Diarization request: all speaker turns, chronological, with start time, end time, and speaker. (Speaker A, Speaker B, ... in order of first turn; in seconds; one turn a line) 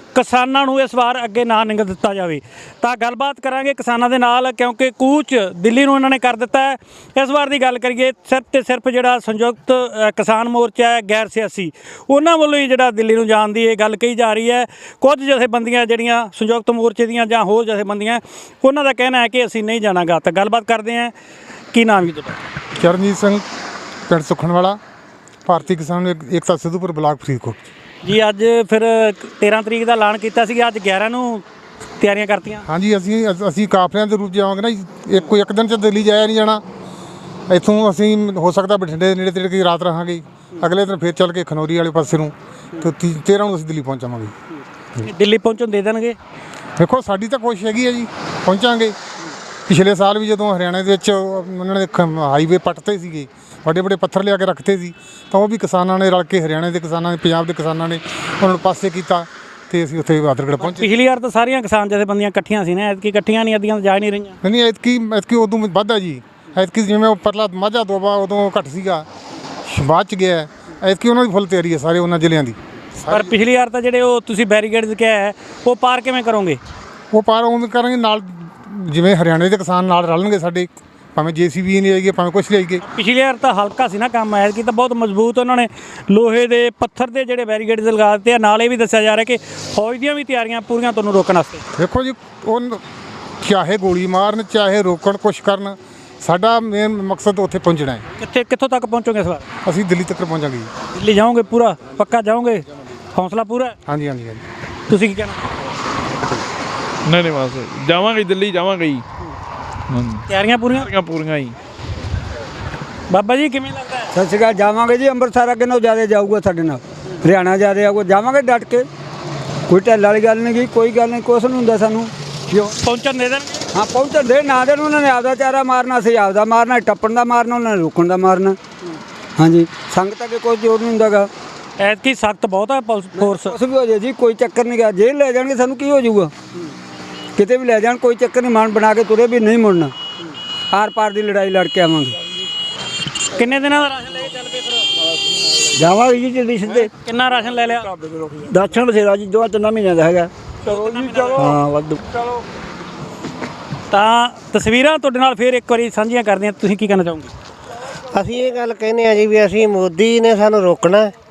Speaker A: 0.1-21.1
Speaker A: 21.7-22.4
Speaker B: 22.8-23.4
Speaker B: 24.1-24.8
Speaker B: 25.5-27.6
Speaker A: 28.0-31.4
Speaker A: 32.0-32.6
Speaker B: 32.7-36.6
Speaker B: 37.5-44.4
Speaker A: 45.0-46.2
Speaker B: 46.8-49.0
Speaker B: 49.7-60.9
Speaker A: 60.6-64.4
Speaker B: 64.4-69.1
Speaker B: 69.7-73.3
Speaker A: 73.1-76.6
Speaker B: 77.1-82.8
Speaker A: 82.8-91.7
Speaker B: 91.8-92.8
Speaker B: 93.4-98.0
Speaker A: 98.2-99.5
Speaker B: 99.6-100.7
Speaker A: 100.9-103.8
Speaker B: 103.9-104.4
Speaker A: 104.9-105.4
Speaker C: 107.0-109.0
Speaker C: 109.9-110.2
Speaker A: 110.3-110.9
Speaker C: 110.8-111.6
Speaker A: 113.1-114.1
Speaker D: 114.1-118.9
Speaker D: 119.7-122.7
Speaker A: 122.7-123.6
Speaker D: 123.7-128.6
Speaker D: 129.4-131.3
Speaker A: 131.8-133.6
Speaker D: 133.2-136.3
Speaker D: 137.4-139.9
Speaker D: 140.7-142.2
Speaker A: 143.3-144.8
Speaker D: 145.7-146.9
Speaker A: 146.7-147.9
Speaker D: 148.4-152.0
Speaker A: 150.7-151.4
Speaker A: 153.9-157.3
Speaker E: 158.1-161.1